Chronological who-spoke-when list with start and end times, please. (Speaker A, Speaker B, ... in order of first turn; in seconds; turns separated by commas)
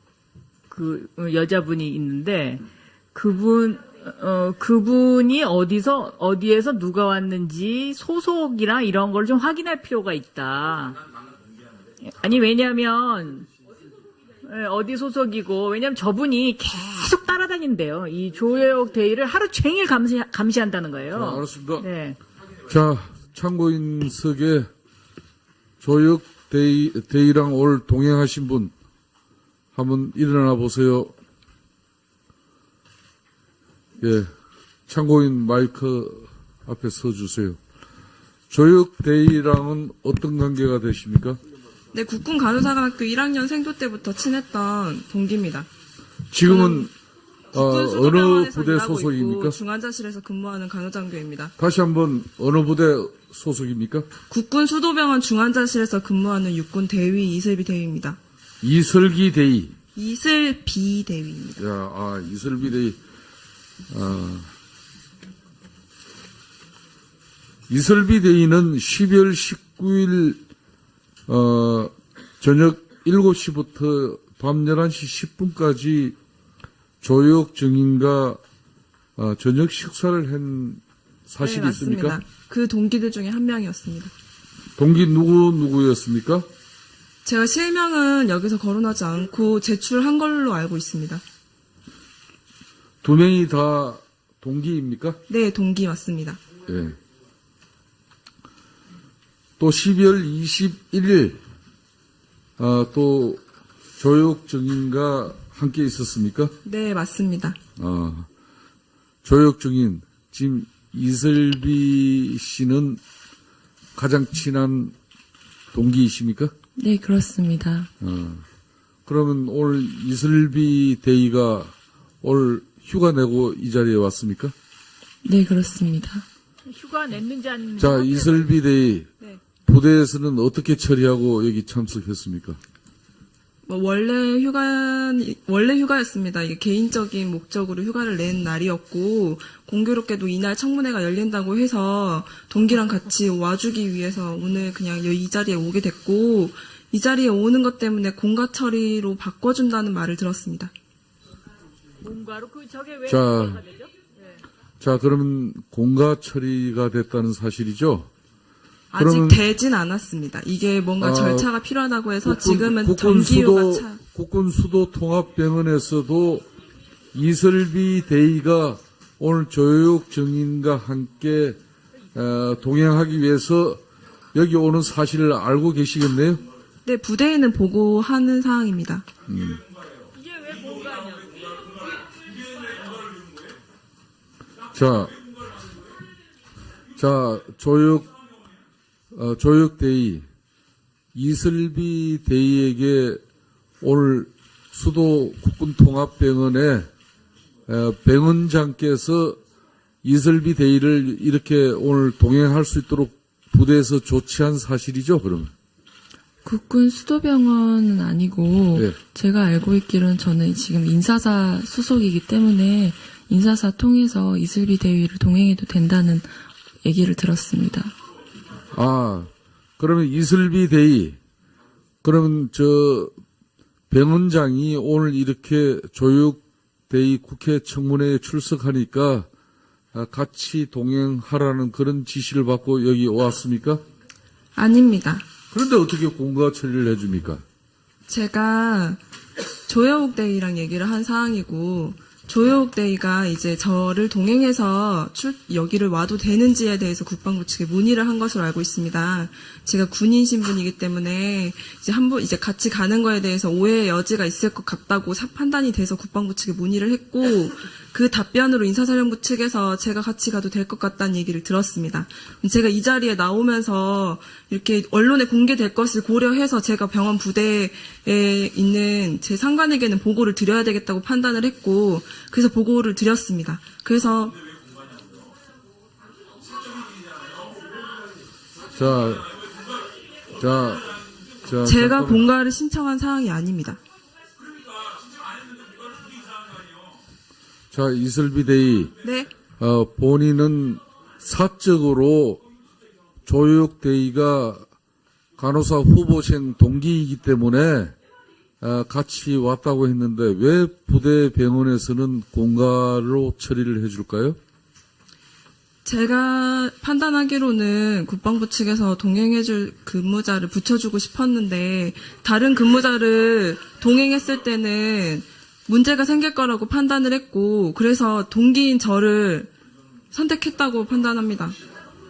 Speaker A: 0.7-2.6, Speaker A: 3.1-11.0, Speaker A: 12.0-13.5, Speaker A: 14.4-22.2, Speaker B: 21.1-21.9, Speaker B: 22.7-24.7, Speaker B: 25.8-28.7, Speaker B: 29.7-31.1, Speaker B: 34.0-34.3, Speaker B: 34.9-37.6, Speaker B: 38.5-41.4, Speaker C: 41.9-45.7, Speaker B: 46.3-46.9, Speaker C: 46.4-46.9, Speaker B: 47.5-49.6, Speaker C: 47.5-51.5, Speaker B: 51.6-54.1, Speaker C: 54.3-58.2, Speaker B: 58.6-59.8, Speaker C: 60.0-61.6, Speaker B: 61.6-63.0, Speaker B: 63.9-64.5, Speaker B: 67.7-70.4, Speaker B: 71.3-76.2, Speaker B: 77.0-78.4, Speaker B: 79.2-82.2, Speaker C: 81.4-84.1, Speaker B: 84.8-86.5, Speaker C: 87.2-91.2, Speaker B: 93.0-95.2, Speaker C: 95.3-96.4, Speaker B: 96.7-97.0, Speaker B: 99.6-101.4, Speaker B: 102.6-103.4, Speaker B: 104.0-106.5, Speaker C: 106.6-107.6, Speaker B: 107.8-108.3, Speaker B: 109.2-113.0, Speaker B: 114.0-114.9, Speaker B: 115.7-116.5, Speaker D: 116.8-117.9, Speaker B: 118.0-118.4, Speaker B: 119.0-124.5, Speaker D: 125.2-126.2, Speaker A: 126.7-128.5, Speaker B: 127.8-129.1, Speaker B: 129.6-132.6, Speaker C: 133.7-150.7, Speaker A: 152.0-153.9, Speaker B: 153.1-153.7, Speaker B: 154.8-158.1, Speaker C: 158.9-164.0, Speaker B: 159.0-159.4, Speaker B: 161.0-161.5, Speaker B: 162.2-166.4, Speaker B: 167.1-171.6, Speaker B: 172.1-173.8, Speaker B: 174.3-176.4, Speaker C: 176.8-179.1, Speaker B: 179.3-179.6, Speaker A: 180.2-181.8, Speaker B: 184.7-185.1, Speaker B: 187.0-188.1, Speaker B: 189.1-190.2, Speaker B: 191.1-193.2, Speaker B: 193.8-196.9, Speaker B: 197.7-199.4, Speaker B: 200.0-205.5, Speaker D: 206.4-217.9, Speaker B: 218.7-221.2, Speaker B: 222.0-223.1, Speaker B: 223.9-229.3, Speaker B: 229.9-233.8, Speaker C: 234.5-235.2, Speaker B: 235.5-237.4, Speaker C: 238.1-239.0, Speaker C: 239.7-274.4, Speaker B: 278.7-279.3, Speaker B: 280.4-282.2, Speaker C: 281.6-283.8, Speaker B: 287.7-288.9, Speaker C: 289.0-289.3, Speaker B: 289.6-292.4, Speaker B: 293.2-294.6, Speaker B: 295.4-297.9, Speaker B: 298.6-304.4, Speaker C: 305.8-319.5, Speaker C: 320.1-321.5